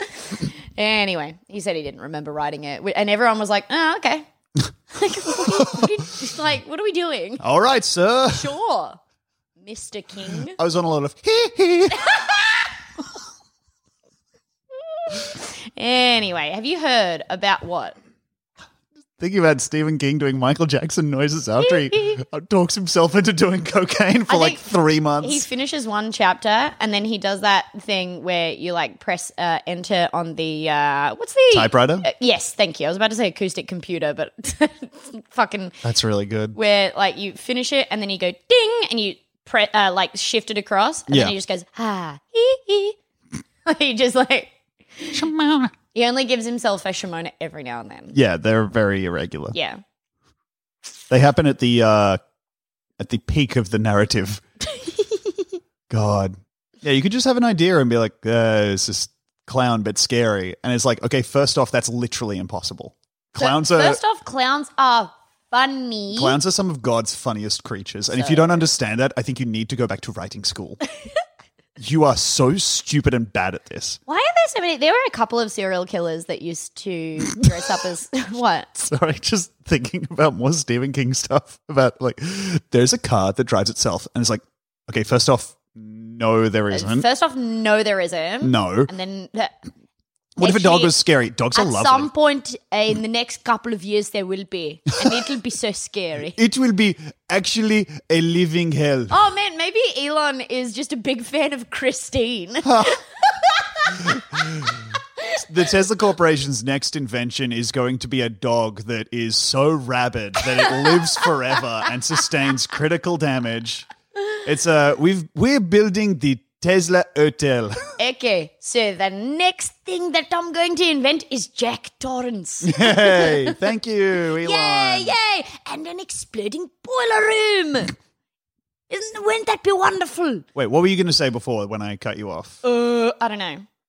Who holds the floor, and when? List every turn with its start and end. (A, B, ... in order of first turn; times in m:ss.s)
0:00.2-0:04.2 A
0:04.9-0:07.4 A
0:05.2-0:06.0 B
0:07.4-0:08.5 B
0:08.3-0:09.0 A
0:09.6-0:10.6 A
0:10.6-0:12.2 B
0:12.0-0:12.5 A
0:15.1-0:18.0 A
0:19.2-0:25.4 B
0:24.3-0:24.6 A
0:25.2-0:35.8 A
0:31.5-0:32.1 B
0:35.8-0:36.6 B
0:36.5-0:43.0 A
0:41.1-0:41.3 B
0:43.6-0:45.2 A
0:45.1-0:45.7 B
0:45.9-0:48.2 A
0:48.1-0:49.5 B
0:49.5-0:49.8 A
0:51.1-0:52.2 B
0:53.0-0:54.4 B
0:55.9-1:04.0 B
1:03.4-1:06.4 A
1:06.1-1:10.8 B
1:08.1-1:08.7 A
1:11.8-1:14.0 B
1:14.1-1:18.8 A
1:18.8-1:27.1 B
1:26.7-1:29.6 A
1:28.4-1:28.9 B
1:30.4-1:32.1 B
1:30.4-1:30.9 A
1:31.5-1:36.4 A
1:36.3-1:39.1 B
1:39.1-1:44.1 A
1:42.6-1:43.0 B
1:44.0-1:44.8 B
1:45.4-1:53.9 B
1:54.4-1:57.8 B
1:58.0-2:03.6 A
2:02.6-2:05.1 B
2:04.4-2:08.0 A
2:08.9-2:10.4 A
2:10.5-2:12.6 B
2:12.6-2:13.6 A